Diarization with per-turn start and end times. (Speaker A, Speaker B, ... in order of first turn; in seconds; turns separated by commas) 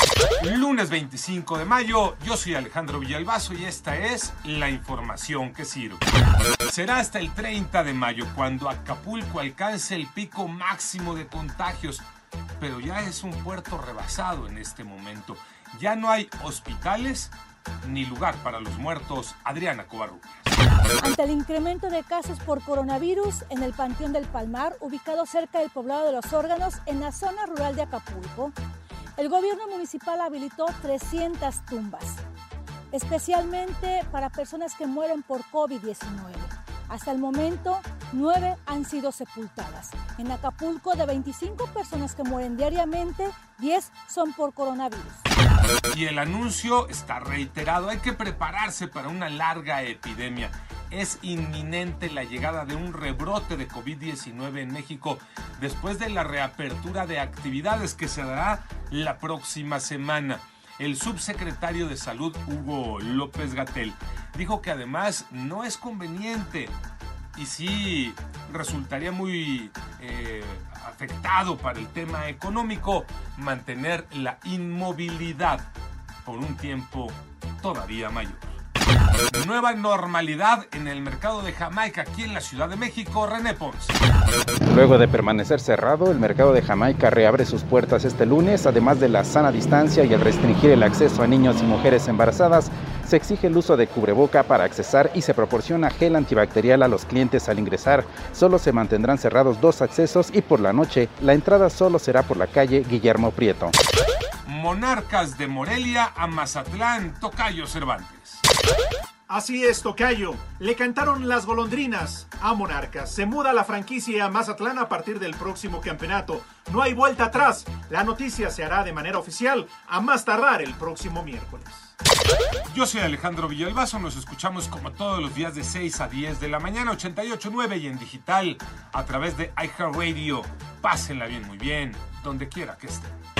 Speaker A: 0.4-6.0, Speaker A: 6.7-12.0, Speaker A: 12.6-20.5, Speaker B: 21.0-28.5, Speaker B: 29.2-32.2, Speaker B: 32.9-45.2, Speaker A: 45.9-66.8, Speaker A: 67.3-75.7, Speaker A: 76.2-78.5, Speaker A: 79.3-84.0, Speaker C: 84.7-103.7, Speaker A: 104.4-108.4, Speaker D: 109.3-121.9, Speaker A: 122.7-133.2